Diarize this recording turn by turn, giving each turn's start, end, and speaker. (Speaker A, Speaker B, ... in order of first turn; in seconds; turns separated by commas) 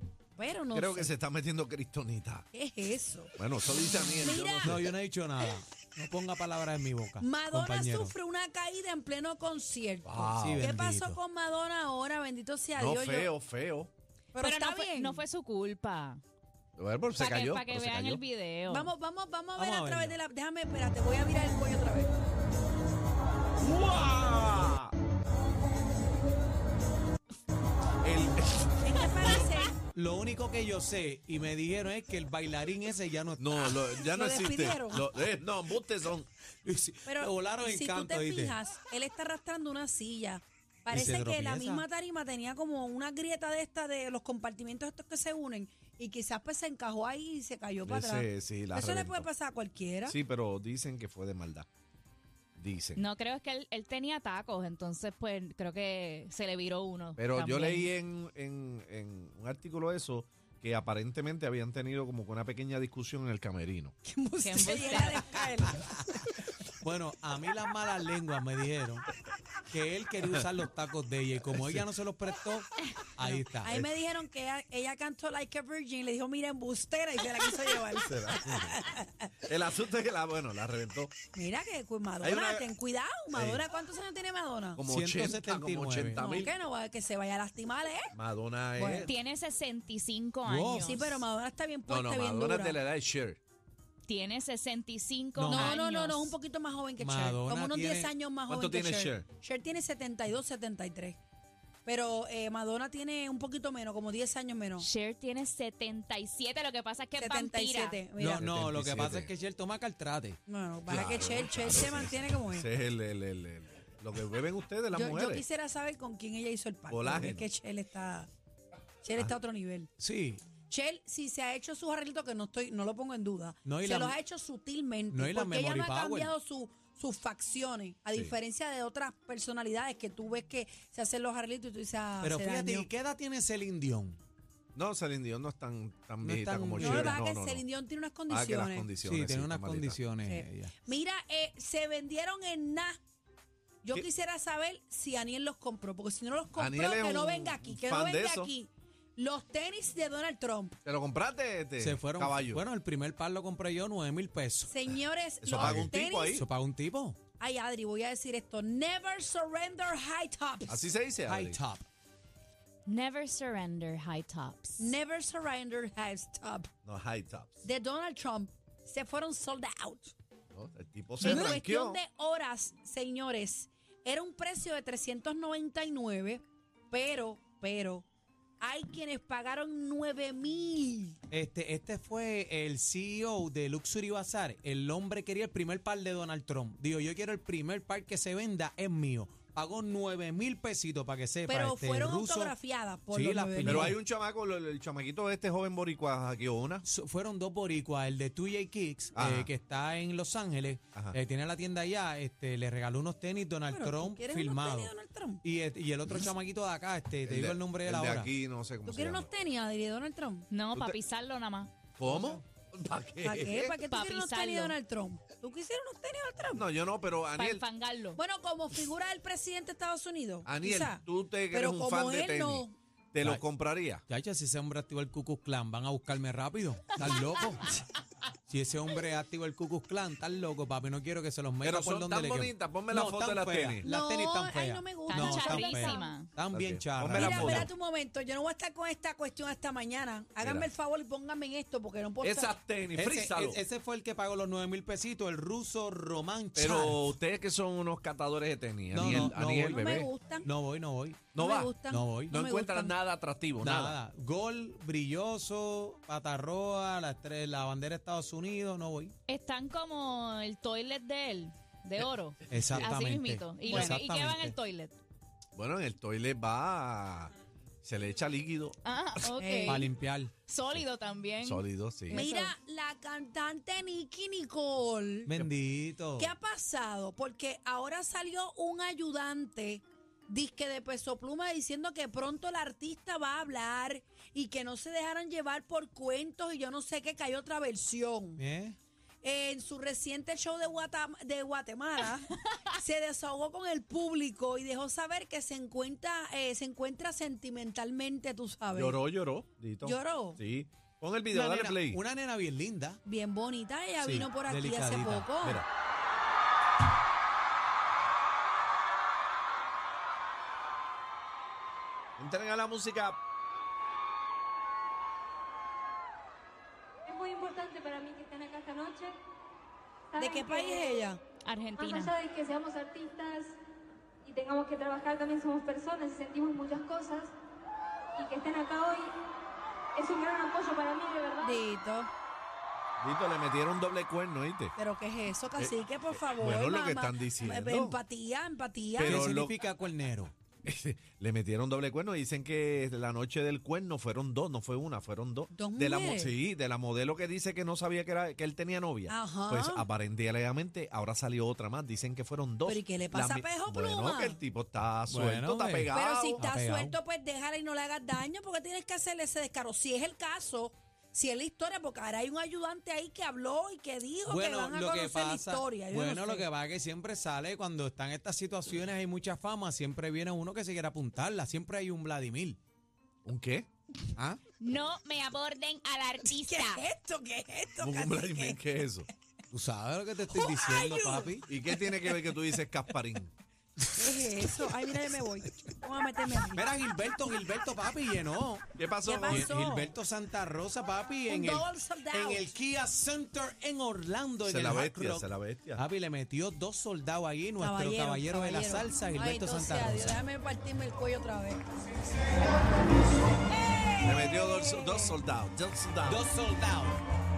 Speaker A: 0.4-1.1, Speaker B: 0.7-2.5, Speaker A: 2.5-3.4, Speaker B: 3.4-4.9, Speaker A: 4.2-4.7, Speaker C: 4.6-8.2, Speaker A: 7.2-13.3, Speaker B: 10.1-10.7, Speaker C: 10.2-11.2, Speaker B: 12.8-13.9, Speaker A: 14.3-15.2, Speaker D: 14.4-16.2, Speaker B: 16.8-18.2, Speaker D: 17.1-18.9, Speaker A: 18.7-22.1, Speaker C: 19.6-20.2, Speaker B: 23.6-24.9, Speaker B: 28.0-28.9, Speaker A: 28.8-29.8, Speaker C: 29.1-34.0, Speaker B: 33.4-36.3, Speaker A: 34.0-35.0, Speaker C: 36.6-38.6, Speaker A: 37.1-50.2, Speaker C: 40.9-41.9, Speaker B: 47.9-49.3, Speaker B: 50.1-51.7, Speaker B: 52.6-53.0, Speaker D: 53.0-57.9, Speaker B: 57.2-63.9, Speaker A: 64.0-66.3, Speaker D: 64.4-65.4, Speaker C: 66.7-69.1, Speaker C: 69.7-73.7, Speaker A: 73.2-79.3, Speaker B: 78.0-78.8, Speaker B: 79.5-81.1, Speaker A: 81.3-84.8, Speaker B: 82.2-82.7, Speaker B: 83.3-83.6, Speaker B: 84.8-86.5, Speaker C: 84.9-86.2, Speaker A: 86.2-88.2, Speaker B: 88.2-89.1, Speaker A: 88.8-89.1, Speaker D: 89.0-91.1, Speaker C: 90.5-91.2, Speaker A: 90.9-92.8, Speaker B: 91.9-93.4, Speaker D: 94.1-96.4, Speaker C: 95.4-95.8, Speaker A: 95.5-101.2, Speaker C: 97.0-98.1, Speaker B: 98.5-99.3, Speaker A: 101.9-104.9, Speaker D: 104.8-108.0, Speaker A: 107.2-108.4, Speaker C: 108.1-110.4, Speaker B: 108.4-109.3, Speaker A: 110.5-112.7, Speaker B: 110.9-115.5, Speaker A: 114.9-118.3, Speaker B: 116.9-117.5, Speaker A: 119.0-119.9, Speaker C: 120.0-120.6, Speaker A: 120.7-132.9, Speaker C: 123.6-124.2, Speaker C: 125.1-126.3, Speaker C: 132.2-134.2, Speaker B: 134.8-137.6, Speaker C: 136.2-137.2, Speaker A: 136.9-138.9, Speaker B: 138.3-140.0, Speaker C: 139.0-140.8, Speaker A: 140.3-143.0, Speaker A: 143.8-150.8, Speaker B: 146.6-148.5, Speaker B: 150.8-152.6, Speaker C: 151.8-155.0, Speaker A: 154.7-156.4, Speaker B: 155.4-156.5, Speaker C: 155.5-157.2, Speaker A: 157.4-160.8, Speaker B: 160.7-161.6, Speaker C: 161.3-161.9, Speaker D: 162.9-165.0, Speaker A: 164.8-166.7, Speaker B: 166.8-167.6, Speaker A: 167.6-170.1, Speaker B: 170.5-172.0, Speaker A: 171.2-178.1, Speaker C: 171.3-171.6, Speaker A: 178.6-181.2, Speaker C: 181.3-192.6, Speaker A: 191.5-193.8, Speaker C: 193.1-194.0, Speaker B: 193.6-196.8, Speaker C: 196.8-208.3, Speaker B: 199.2-199.5, Speaker A: 203.7-205.4, Speaker B: 207.2-209.3, Speaker A: 208.8-210.5, Speaker D: 210.5-211.7, Speaker B: 212.0-213.8, Speaker A: 212.1-212.4, Speaker A: 213.2-216.7, Speaker D: 213.9-214.8, Speaker B: 216.5-217.6, Speaker D: 217.3-218.2, Speaker A: 218.2-222.8, Speaker B: 220.4-224.0, Speaker C: 224.1-227.8, Speaker C: 228.5-237.7, Speaker B: 231.6-233.9, Speaker A: 233.8-236.1, Speaker D: 235.1-236.3, Speaker B: 236.5-237.7, Speaker A: 237.2-242.6, Speaker B: 240.4-240.7, Speaker B: 242.2-243.6, Speaker C: 242.9-247.1, Speaker B: 246.6-250.1, Speaker C: 248.9-252.4, Speaker A: 249.6-250.5, Speaker B: 251.3-251.8, Speaker A: 251.4-253.0, Speaker B: 252.3-254.0, Speaker C: 253.6-259.1, Speaker D: 259.3-265.0, Speaker C: 262.5-264.6, Speaker A: 263.7-264.0, Speaker B: 265.6-268.8, Speaker D: 268.8-269.9, Speaker A: 269.3-269.9, Speaker C: 269.7-270.4, Speaker D: 270.5-272.5, Speaker B: 271.4-272.2, Speaker A: 272.1-275.4, Speaker C: 275.3-276.3, Speaker A: 276.2-288.4, Speaker C: 288.4-288.8, Speaker A: 289.2-299.0, Speaker B: 298.7-302.0, Speaker A: 299.8-300.4, Speaker C: 301.3-303.0, Speaker A: 303.1-305.6, Speaker C: 304.0-305.4, Speaker B: 312.2-313.2, Speaker E: 317.1-319.2, Speaker E: 320.1-320.9, Speaker A: 320.2-321.2, Speaker D: 321.4-322.2, Speaker E: 321.8-323.6, Speaker E: 324.2-327.3, Speaker E: 328.1-329.1, Speaker E: 329.9-331.6, Speaker A: 331.4-332.1, Speaker B: 333.0-334.7, Speaker A: 334.8-339.1, Speaker B: 336.3-338.0, Speaker B: 339.0-339.6, Speaker C: 339.0-340.3, Speaker B: 340.6-356.5, Speaker A: 345.5-346.4, Speaker A: 349.1-349.9, Speaker A: 352.7-354.4, Speaker C: 355.1-357.0, Speaker A: 355.9-366.5, Speaker C: 364.2-372.6, Speaker B: 373.2-373.7, Speaker C: 374.2-374.4, Speaker D: 374.6-376.8, Speaker A: 376.2-378.6, Speaker B: 377.8-379.1, Speaker C: 379.5-381.5, Speaker A: 380.3-382.2, Speaker B: 381.5-383.3, Speaker C: 383.8-385.7, Speaker A: 384.0-386.7, Speaker C: 386.3-388.7, Speaker B: 388.8-389.5, Speaker A: 389.0-389.9, Speaker C: 389.3-400.2, Speaker A: 391.3-392.4, Speaker B: 394.4-395.8, Speaker A: 397.6-401.6, Speaker A: 403.3-405.2, Speaker B: 404.0-406.3, Speaker C: 406.0-407.0